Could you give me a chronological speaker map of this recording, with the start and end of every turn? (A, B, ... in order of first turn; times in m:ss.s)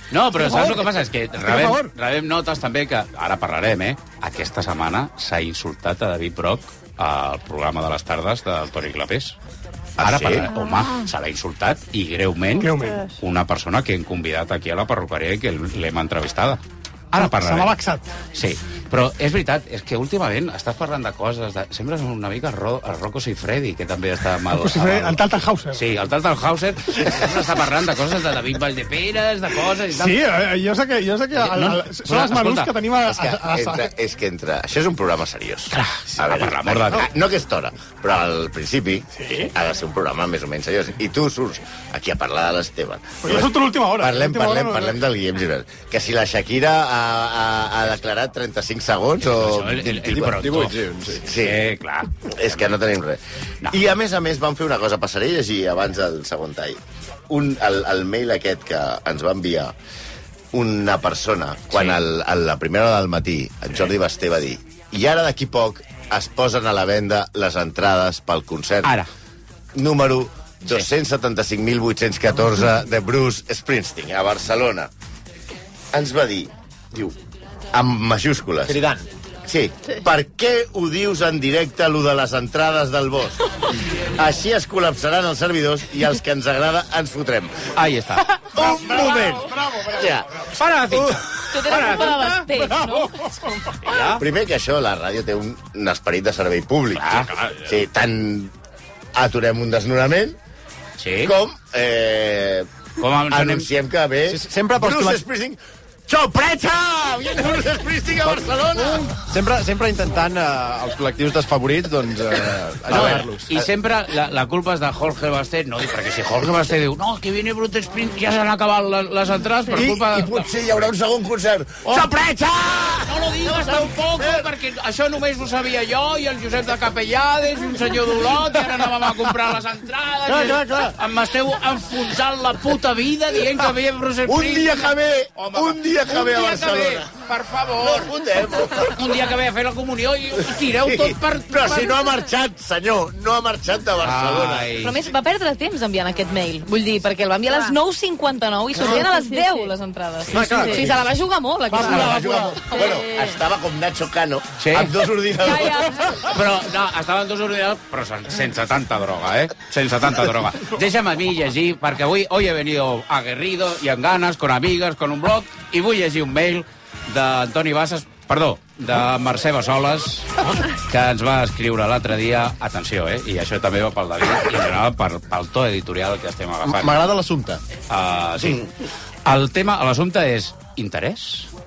0:00.1-0:09.4 A
0:00.4-0:01.9 B
0:10.0-0:10.5 C
0:10.0-0:16.6 A
0:12.6-0:13.1 B
0:17.1-0:17.7 A
0:17.1-0:18.1 B
0:18.3-0:25.2 A
0:24.5-0:25.8 B
0:25.7-0:30.2 A
0:29.9-0:33.9 B
0:31.3-0:32.7 A
0:33.0-0:50.3 C
0:35.7-0:37.1 A
0:39.2-0:39.5 B
0:43.2-0:45.0 B
0:49.2-0:50.7 A
0:50.1-0:51.2 D
0:51.2-0:51.6 C
0:51.3-0:52.8 A
0:52.3-0:59.7 C
1:00.5-1:08.9 C
1:01.7-1:02.0 A
1:08.8-1:09.1 A
1:09.7-1:14.9 C
1:15.9-1:17.2 C
1:17.7-1:18.8 C
1:18.6-1:19.1 D
1:19.4-1:23.4 C
1:24.2-1:27.7 C
1:27.7-1:28.3 A
1:28.5-1:30.3 C
1:28.5-1:30.6 B
1:30.5-1:32.3 A
1:31.5-1:33.1 E
1:31.8-1:33.9 B
1:33.8-1:34.2 A
1:34.1-1:38.5 C
1:37.0-1:37.4 A
1:39.1-1:40.4 C
1:41.0-1:41.3 A
1:41.2-1:42.7 C
1:43.0-1:43.7 A
1:43.3-1:49.1 C
1:44.2-1:45.2 D
1:49.1-1:53.6 D
1:52.9-2:00.8 A
1:52.9-1:53.2 C
1:59.7-2:04.5 C
2:03.0-2:18.1 A
2:10.3-2:10.9 B
2:14.2-2:17.1 C
2:17.8-2:19.0 C
2:18.7-2:21.8 A
2:20.5-2:24.8 C
2:24.0-2:25.0 A
2:24.8-2:33.3 E
2:30.2-2:30.6 A
2:30.3-2:30.9 B
2:30.3-2:31.0 C
2:31.7-2:32.8 B
2:31.7-2:36.1 C
2:34.6-2:34.9 A
2:35.4-2:35.9 E
2:36.2-2:57.0 A
2:56.6-2:57.6 D
2:57.9-2:58.6 A
2:58.4-2:58.6 C
2:59.2-3:01.5 A